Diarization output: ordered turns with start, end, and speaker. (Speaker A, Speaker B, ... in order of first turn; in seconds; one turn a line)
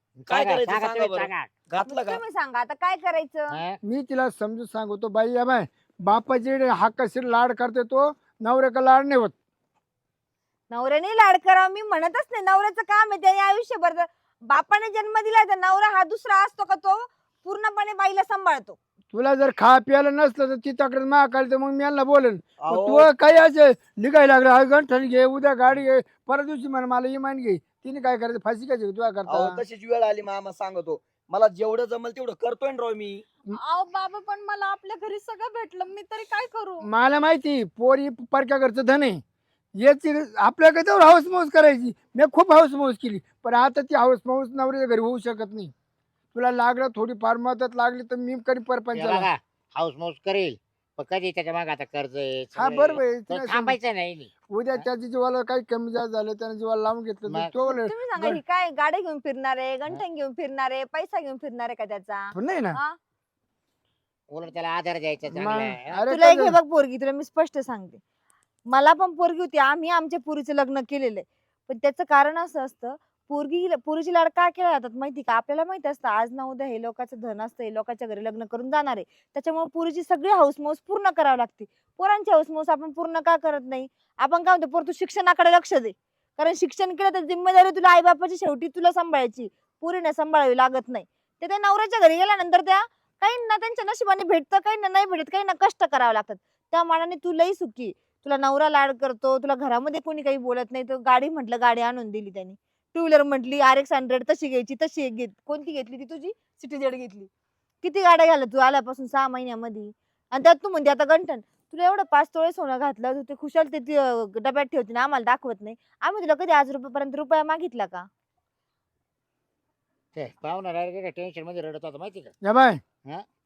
Speaker A: 0.2-1.5
Speaker B: 0.3-2.2
Speaker C: 1.9-3.6
Speaker A: 3.5-3.8
Speaker D: 3.8-9.3
Speaker C: 10.7-18.8
Speaker D: 19.1-29.6
Speaker B: 22.6-23.1
Speaker B: 29.3-33.2
Speaker E: 33.5-36.9
Speaker D: 36.8-39.2
Speaker D: 39.8-45.7
Speaker D: 46.3-49.3
Speaker A: 48.9-54.9
Speaker D: 52.5-53.8
Speaker D: 54.5-58.4
Speaker C: 57.7-63.0
Speaker D: 62.3-62.8
Speaker A: 64.3-66.0
Speaker D: 65.3-66.6
Speaker C: 66.1-68.0
Speaker C: 68.7-107.3
Speaker C: 107.8-118.1
Speaker A: 120.2-122.3
Speaker D: 122.4-122.8